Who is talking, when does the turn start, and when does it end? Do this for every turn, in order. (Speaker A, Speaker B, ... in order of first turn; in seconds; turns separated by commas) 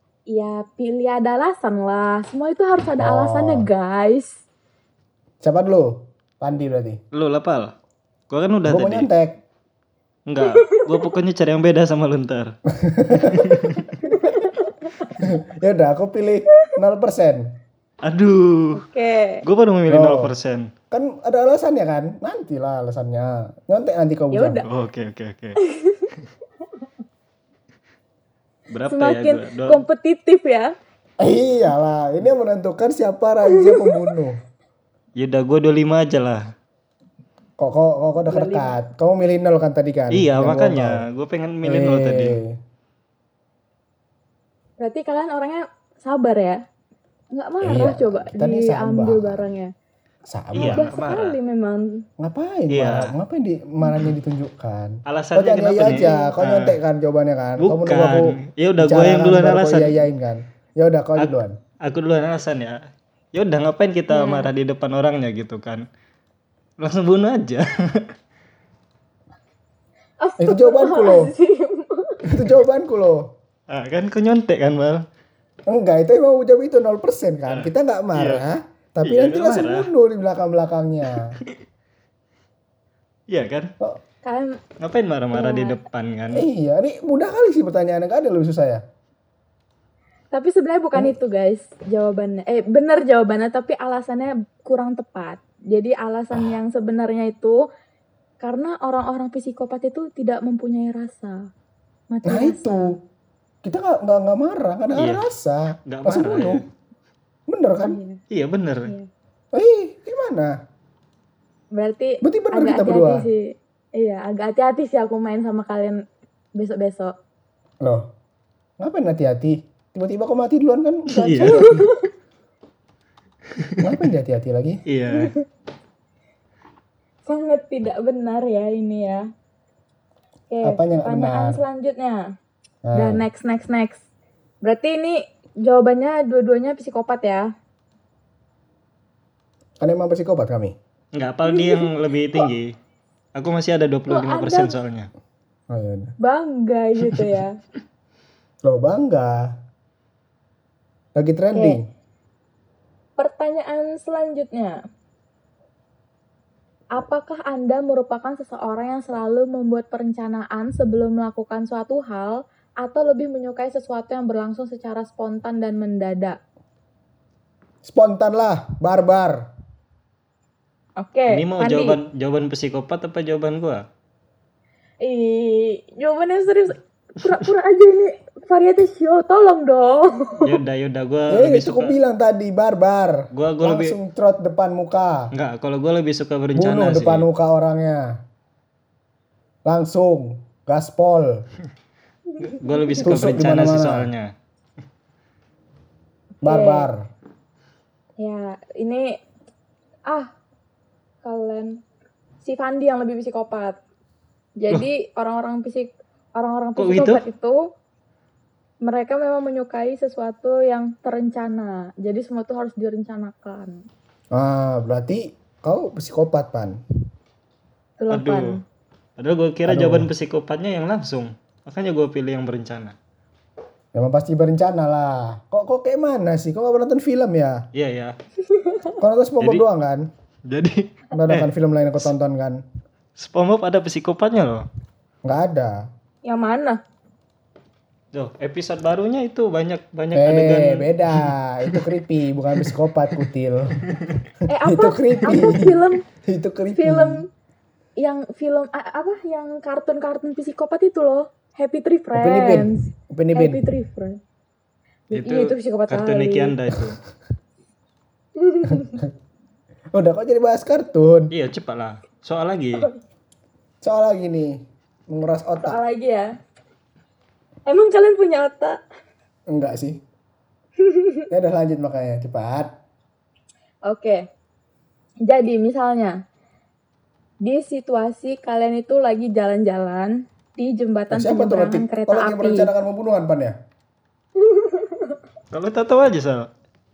Speaker A: 0.3-4.4, Speaker B: 3.0-3.7, Speaker B: 5.4-7.0, Speaker C: 7.1-7.7, Speaker C: 8.3-9.1, Speaker B: 8.7-9.4, Speaker C: 10.3-12.6, Speaker A: 10.4-11.1, Speaker B: 12.7-13.8, Speaker C: 13.2-13.9, Speaker A: 14.0-14.9, Speaker B: 15.2-17.5, Speaker C: 18.0-18.8, Speaker A: 18.7-19.4, Speaker C: 19.4-20.7, Speaker B: 19.9-20.3, Speaker B: 20.9-24.6, Speaker A: 24.3-24.7, Speaker C: 24.6-25.6, Speaker A: 25.6-26.1, Speaker C: 28.7-29.8, Speaker A: 28.9-30.7, Speaker B: 31.2-34.4, Speaker A: 33.5-34.1, Speaker C: 35.2-36.5, Speaker B: 37.6-41.0, Speaker A: 38.3-38.8, Speaker C: 40.1-42.4, Speaker B: 41.6-42.6, Speaker A: 44.8-46.6, Speaker A: 47.3-49.7, Speaker B: 47.6-49.4, Speaker B: 50.3-50.9, Speaker C: 50.5-51.4, Speaker A: 50.6-52.0, Speaker B: 52.2-61.6, Speaker C: 52.7-53.1, Speaker C: 55.1-56.8, Speaker A: 55.8-56.3, Speaker C: 57.6-60.0, Speaker C: 61.2-65.8, Speaker A: 64.1-64.5, Speaker C: 66.8-68.1, Speaker A: 70.2-72.4, Speaker B: 70.4-71.3, Speaker B: 72.2-73.3, Speaker C: 73.7-75.0, Speaker B: 75.7-81.4, Speaker C: 77.5-78.4, Speaker C: 79.0-79.9, Speaker C: 83.3-83.7, Speaker A: 84.2-84.6, Speaker C: 84.8-86.5, Speaker A: 85.3-85.8, Speaker B: 86.3-88.8, Speaker A: 90.3-97.6, Speaker A: 98.4-101.5, Speaker A: 102.1-103.0, Speaker B: 102.2-103.0, Speaker B: 103.6-106.6, Speaker C: 105.0-105.2, Speaker C: 105.9-106.7, Speaker B: 107.5-108.0, Speaker A: 107.8-108.2, Speaker C: 108.3-108.9, Speaker B: 109.5-110.6, Speaker A: 111.7-116.0, Speaker B: 112.2-113.3, Speaker A: 116.6-117.1, Speaker B: 117.8-118.1, Speaker B: 118.8-121.7, Speaker C: 121.1-121.8, Speaker A: 121.4-122.1, Speaker C: 123.6-123.9, Speaker B: 123.8-124.8, Speaker C: 124.9-125.3, Speaker A: 125.1-125.4, Speaker A: 127.3-129.3, Speaker A: 130.5-132.2, Speaker B: 130.6-131.6, Speaker B: 132.8-133.2, Speaker A: 132.9-134.0, Speaker A: 134.6-137.5, Speaker B: 139.8-140.8, Speaker C: 141.1-142.7, Speaker A: 141.5-142.5, Speaker C: 143.3-145.1, Speaker A: 144.1-144.8, Speaker B: 145.7-146.2, Speaker A: 146.2-147.6, Speaker B: 148.6-149.5, Speaker B: 151.2-151.9, Speaker A: 151.5-151.8, Speaker A: 153.2-154.8, Speaker A: 156.9-166.4, Speaker B: 167.8-169.5, Speaker A: 171.0-172.0, Speaker C: 171.3-173.8, Speaker A: 175.0-180.6, Speaker C: 180.4-182.0, Speaker B: 181.3-185.3, Speaker C: 183.3-184.0, Speaker C: 185.3-187.3, Speaker B: 186.6-188.2, Speaker B: 189.7-191.5, Speaker A: 192.3-193.1, Speaker C: 192.6-194.3, Speaker B: 193.0-194.1, Speaker B: 196.4-197.1, Speaker A: 196.4-196.9, Speaker A: 198.2-199.2, Speaker A: 200.1-200.3, Speaker A: 201.2-201.8, Speaker A: 202.4-203.8, Speaker A: 204.6-207.6, Speaker C: 206.8-207.2, Speaker A: 208.8-213.8, Speaker B: 214.3-216.8, Speaker A: 218.0-218.6, Speaker C: 218.1-218.6, Speaker C: 219.2-222.9, Speaker B: 219.7-220.1, Speaker B: 223.9-227.7, Speaker C: 227.7-228.2, Speaker A: 228.5-228.9, Speaker B: 229.0-230.1, Speaker C: 229.4-229.7, Speaker C: 230.5-231.5, Speaker B: 231.1-232.6, Speaker C: 233.2-234.7, Speaker B: 235.2-235.9, Speaker A: 236.2-236.8, Speaker C: 238.1-241.9, Speaker B: 240.1-243.8, Speaker C: 243.9-244.2, Speaker A: 244.5-246.0, Speaker B: 244.6-247.2, Speaker A: 246.8-247.3, Speaker A: 248.0-254.2, Speaker B: 252.1-253.6, Speaker A: 255.1-256.5, Speaker C: 255.1-257.0, Speaker A: 258.4-259.0, Speaker B: 258.7-259.1, Speaker B: 259.9-261.3, Speaker C: 261.3-262.9, Speaker B: 263.8-265.8, Speaker A: 265.6-266.3, Speaker A: 267.7-268.8, Speaker B: 269.5-270.0, Speaker A: 270.8-271.2, Speaker B: 271.3-272.7, Speaker A: 273.9-274.3, Speaker A: 275.3-276.2, Speaker A: 277.4-282.7, Speaker B: 281.1-283.6, Speaker A: 284.4-285.1, Speaker C: 285.5-286.5